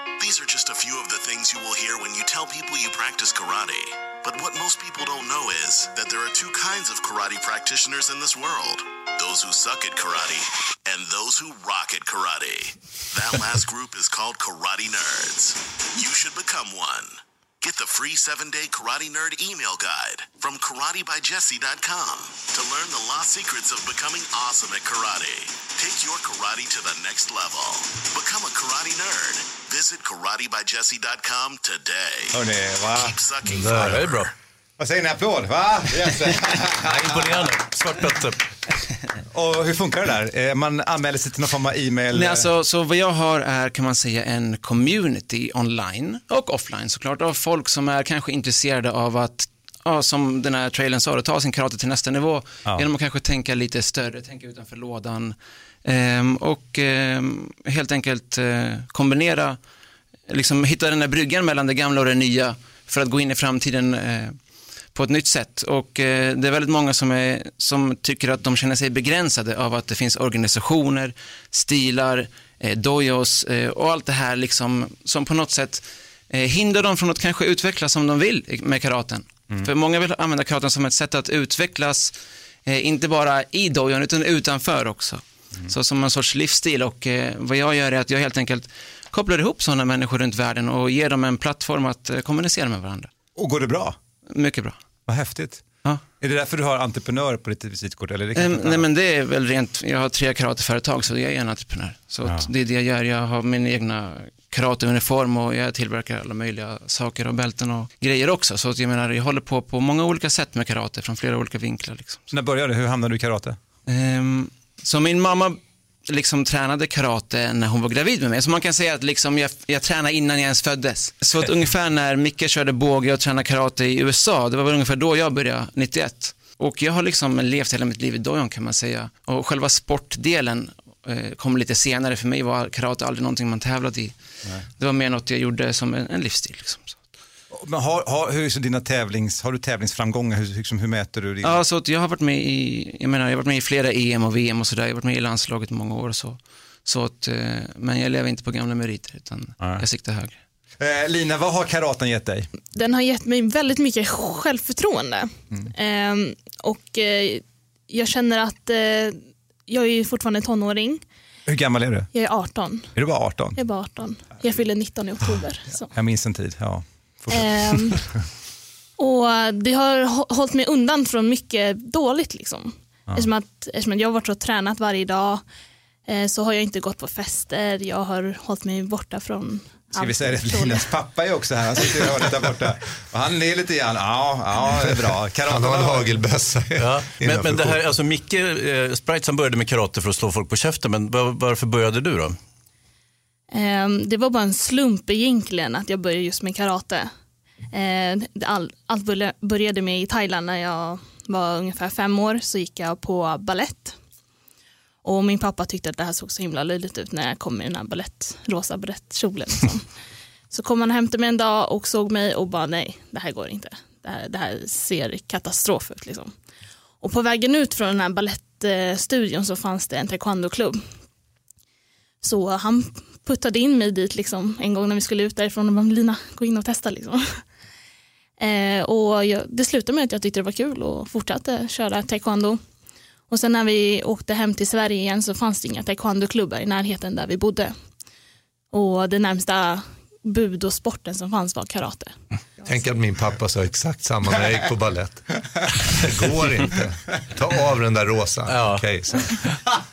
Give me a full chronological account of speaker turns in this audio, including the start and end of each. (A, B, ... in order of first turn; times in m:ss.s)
0:00.2-0:34.2 A
0:32.3-0:34.0 B
0:33.6-0:34.3 C
0:34.8-0:37.5 B
0:36.8-0:38.4 C
0:39.3-0:42.5 B
0:42.1-0:59.6 D
1:00.3-1:04.4 D
1:04.9-1:22.2 D
1:22.7-1:33.1 D
1:33.4-1:34.0 B
1:34.3-1:34.8 D
1:35.1-1:35.6 B
1:36.2-1:38.8 B
1:38.4-1:52.3 D
1:52.3-1:53.6 B
1:53.9-2:17.0 D
2:17.5-2:21.6 B
2:21.4-2:30.4 D
2:29.6-2:29.8 B
2:30.8-2:32.5 B
2:32.7-2:41.0 E
2:41.5-2:42.1 B
2:42.1-2:42.9 E
2:42.9-2:43.6 B
2:43.6-2:45.9 E
2:45.9-2:48.2 B
2:47.3-2:48.0 E
2:49.0-2:55.4 E
2:56.1-3:00.9 E
2:59.9-3:06.1 B
3:05.5-3:07.8 F
3:06.8-3:12.4 C
3:13.5-3:17.1 E
3:17.7-3:24.0 E
3:25.0-3:29.9 E
3:30.5-3:36.3 E
3:37.0-3:40.8 E
3:42.2-3:47.4 E
3:48.4-3:52.6 E
3:53.3-3:57.8 E
3:58.7-4:02.2 E
4:02.6-4:09.4 F
4:08.5-4:09.4 C